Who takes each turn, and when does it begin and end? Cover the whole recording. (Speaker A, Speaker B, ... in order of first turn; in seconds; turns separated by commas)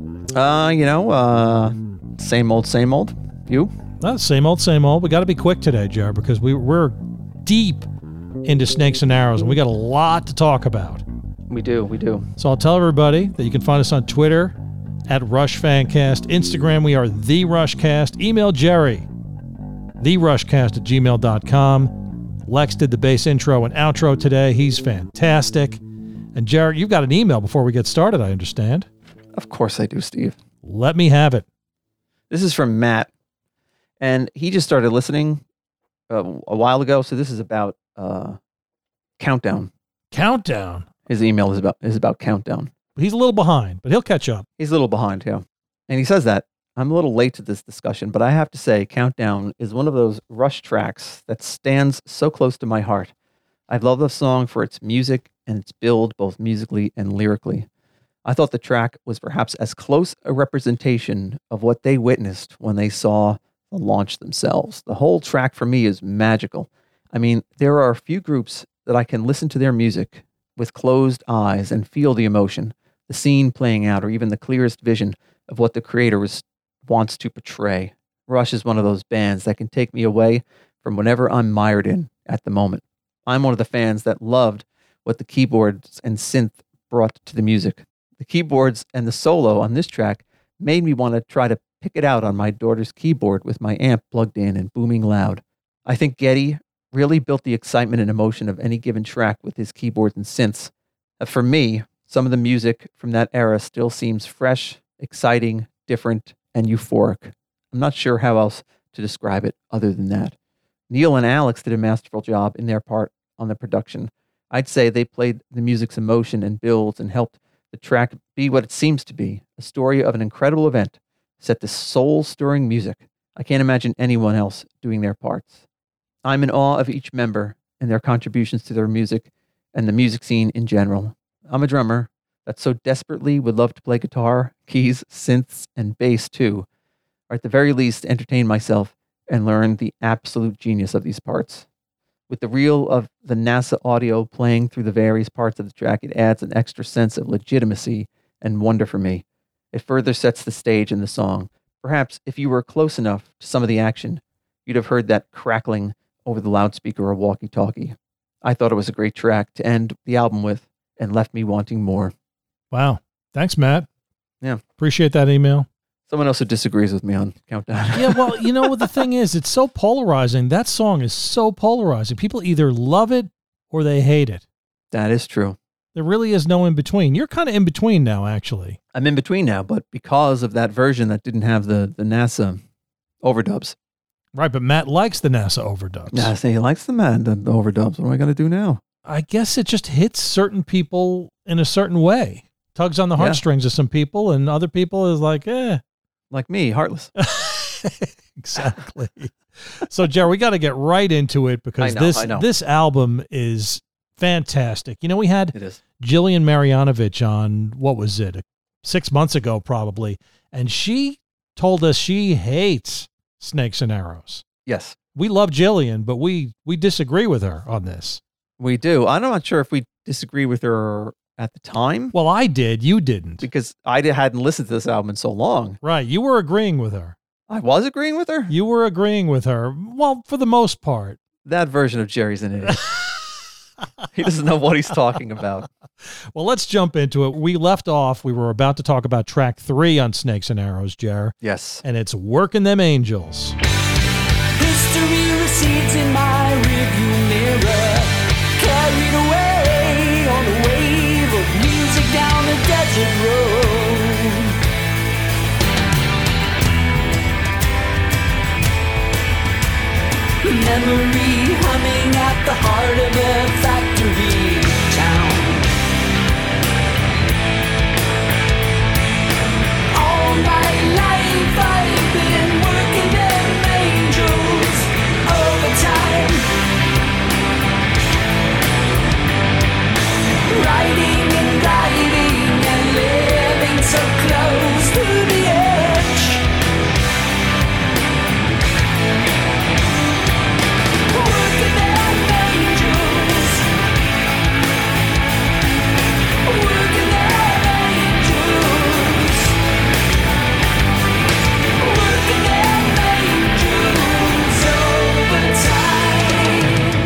Speaker A: 0.3-3.7, Speaker B: 4.0-7.9, Speaker B: 8.4-11.0, Speaker A: 11.5-12.3, Speaker B: 12.4-14.6, Speaker B: 15.1-19.1, Speaker B: 20.0-25.8, Speaker B: 26.3-28.9, Speaker A: 29.4-30.4, Speaker B: 30.6-31.4, Speaker A: 32.3-33.1, Speaker A: 34.0-35.4, Speaker A: 36.1-38.4, Speaker A: 39.2-39.7, Speaker B: 40.1-40.9, Speaker A: 41.1-42.7, Speaker B: 43.0-44.5, Speaker A: 44.6-53.1, Speaker A: 53.7-57.7, Speaker A: 58.2-110.3, Speaker A: 110.9-125.6, Speaker A: 126.2-136.7, Speaker A: 137.3-141.7, Speaker A: 142.3-162.1, Speaker B: 162.7-163.9, Speaker B: 164.8-165.7, Speaker A: 166.1-168.9, Speaker B: 167.9-174.4, Speaker A: 174.9-175.6, Speaker B: 175.9-178.8, Speaker A: 178.9-182.6, Speaker A: 183.2-183.8, Speaker B: 184.3-186.3, Speaker A: 186.1-188.8, Speaker B: 189.0-195.8, Speaker A: 193.2-193.4, Speaker A: 196.3-197.1, Speaker B: 197.2-214.4, Speaker A: 201.8-202.4, Speaker A: 205.5-205.8, Speaker A: 214.7-214.9, Speaker B: 215.1-218.2, Speaker A: 218.6-222.1, Speaker B: 222.1-223.4, Speaker A: 223.4-225.8, Speaker B: 225.8-227.1, Speaker A: 227.5-228.5, Speaker B: 228.5-231.2, Speaker A: 231.4-232.8, Speaker B: 232.7-233.1, Speaker A: 234.1-235.7, Speaker B: 236.3-243.6, Speaker A: 241.4-241.8, Speaker C: 244.6-254.6, Speaker C: 260.4-265.7, Speaker C: 269.9-276.5, Speaker C: 280.5-286.5, Speaker C: 291.1-293.6, Speaker C: 296.4-299.6, Speaker C: 301.8-306.9